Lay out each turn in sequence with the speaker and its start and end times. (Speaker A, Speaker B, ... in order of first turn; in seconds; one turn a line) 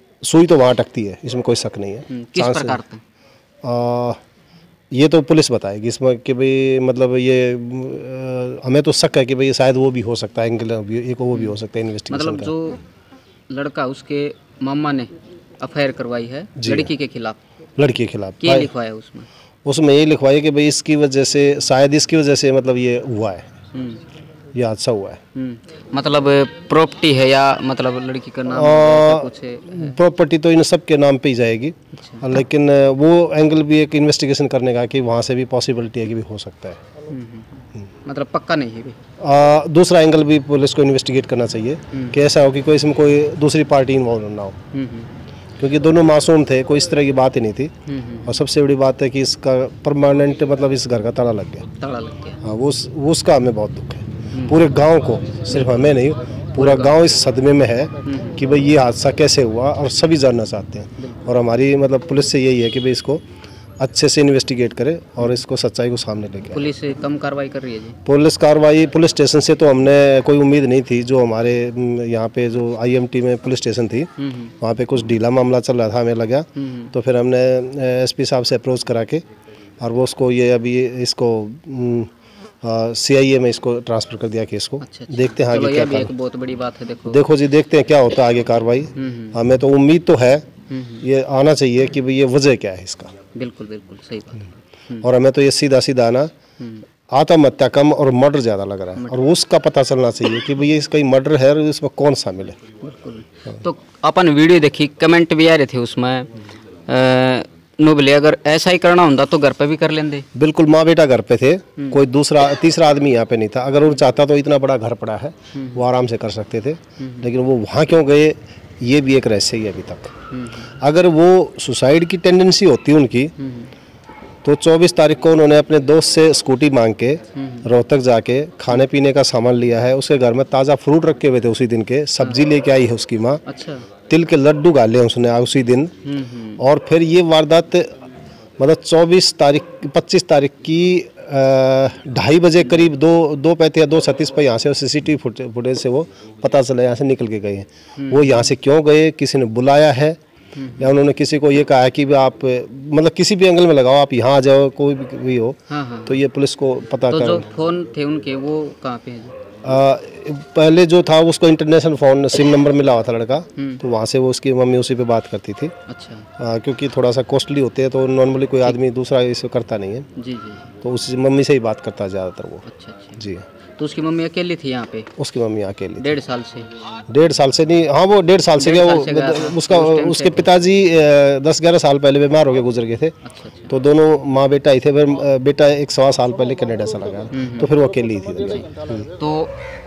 Speaker A: 0.2-2.8
Speaker B: 2.1-3.0
Speaker A: 3.6-4.2
Speaker A: 4.9-12.5
Speaker B: 12.1-12.8
Speaker B: 13.5-17.4
Speaker A: 16.6-16.9
Speaker A: 17.8-18.7
Speaker B: 18.4-19.3
Speaker A: 19.6-23.5
Speaker B: 23.7-24.0
Speaker A: 24.5-25.2
Speaker B: 25.4-29.9
Speaker A: 28.5-36.8
Speaker B: 31.9-32.2
Speaker B: 37.1-39.0
Speaker A: 39.2-44.6
Speaker B: 41.9-42.2
Speaker B: 44.7-45.1
Speaker A: 45.6-47.7
Speaker B: 47.9-48.4
Speaker A: 48.2-51.7
Speaker B: 51.8-52.4
Speaker A: 52.4-63.2
Speaker B: 54.3-54.6
Speaker B: 56.6-57.0
Speaker B: 58.0-58.4
Speaker A: 63.8-66.6
Speaker B: 66.5-68.0
Speaker A: 68.1-74.1
Speaker B: 74.2-74.5
Speaker A: 74.6-79.2
Speaker B: 76.6-76.9
Speaker A: 79.8-82.1
Speaker A: 82.6-86.1
Speaker B: 84.8-87.3
Speaker A: 87.1-90.5
Speaker B: 89.0-89.4
Speaker B: 90.7-91.0
Speaker A: 91.0-93.1
Speaker B: 93.3-95.0
Speaker A: 95.0-96.3
Speaker B: 96.6-96.8
Speaker A: 97.1-102.6
Speaker B: 102.8-106.3
Speaker B: 106.9-110.3
Speaker A: 110.3-120.1
Speaker B: 115.5-115.8
Speaker B: 117.0-117.2
Speaker B: 120.3-120.7
Speaker A: 120.8-123.3
Speaker B: 123.4-123.7
Speaker A: 124.5-133.4
Speaker B: 127.3-127.7
Speaker B: 133.5-133.9
Speaker A: 134.1-135.9
Speaker B: 136.0-136.6
Speaker A: 136.6-137.9
Speaker A: 138.6-150.2
Speaker B: 148.0-148.5
Speaker B: 150.6-150.9
Speaker A: 150.8-157.5
Speaker B: 155.7-156.2
Speaker B: 157.1-159.4
Speaker A: 159.6-165.7
Speaker B: 163.6-163.8
Speaker B: 165.9-166.3
Speaker A: 166.4-170.1
Speaker B: 170.2-170.7
Speaker A: 170.8-172.7
Speaker B: 172.7-173.2
Speaker A: 173.2-173.5
Speaker B: 173.8-175.1
Speaker A: 175.2-176.1
Speaker B: 176.0-176.8
Speaker A: 177.1-183.2
Speaker B: 178.6-180.5
Speaker B: 183.2-183.7
Speaker A: 183.7-189.1
Speaker B: 187.3-187.7
Speaker B: 189.2-189.5